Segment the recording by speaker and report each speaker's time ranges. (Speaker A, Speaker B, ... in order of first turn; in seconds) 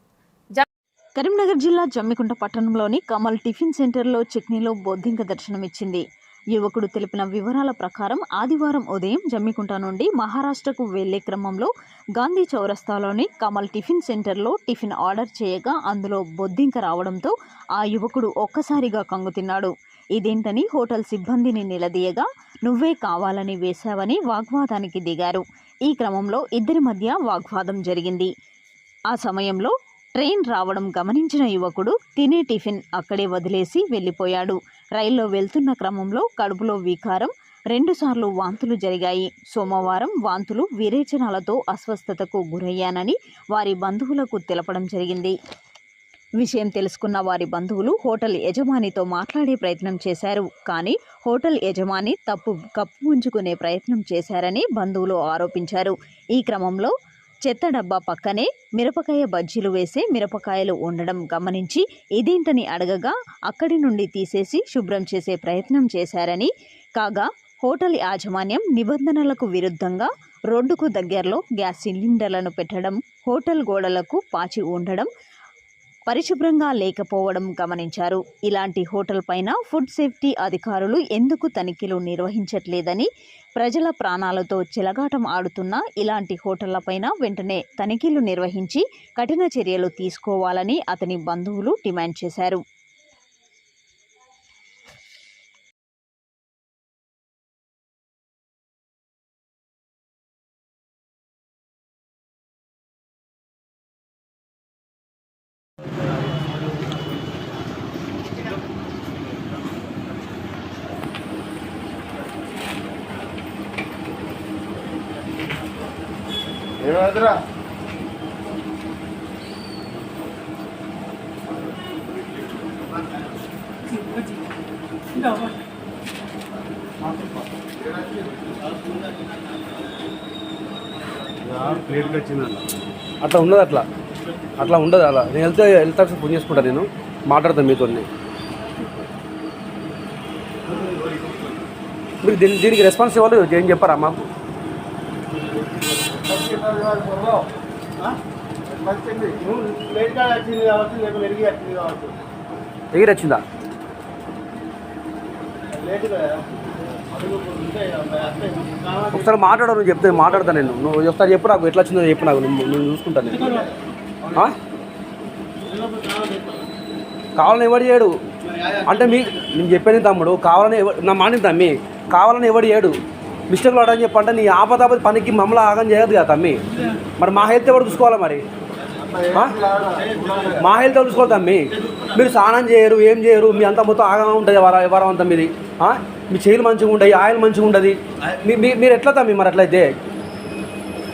Speaker A: 1.2-6.0, 6.5-28.3, 29.1-45.4, 46.4-56.9, 57.5-75.1, 76.1-92.6
Speaker B: 116.8-117.3, 146.1-147.4, 148.7-152.2, 155.7-156.4, 157.0-159.2, 165.7-166.7, 179.0-180.6
Speaker C: 131.5-132.6, 133.2-133.9, 134.6-138.1, 142.2-144.3, 152.9-153.4, 159.1-163.7, 167.4-168.1, 168.8-172.9, 173.5-176.6, 177.2-178.4, 179.3-179.6, 180.5-189.9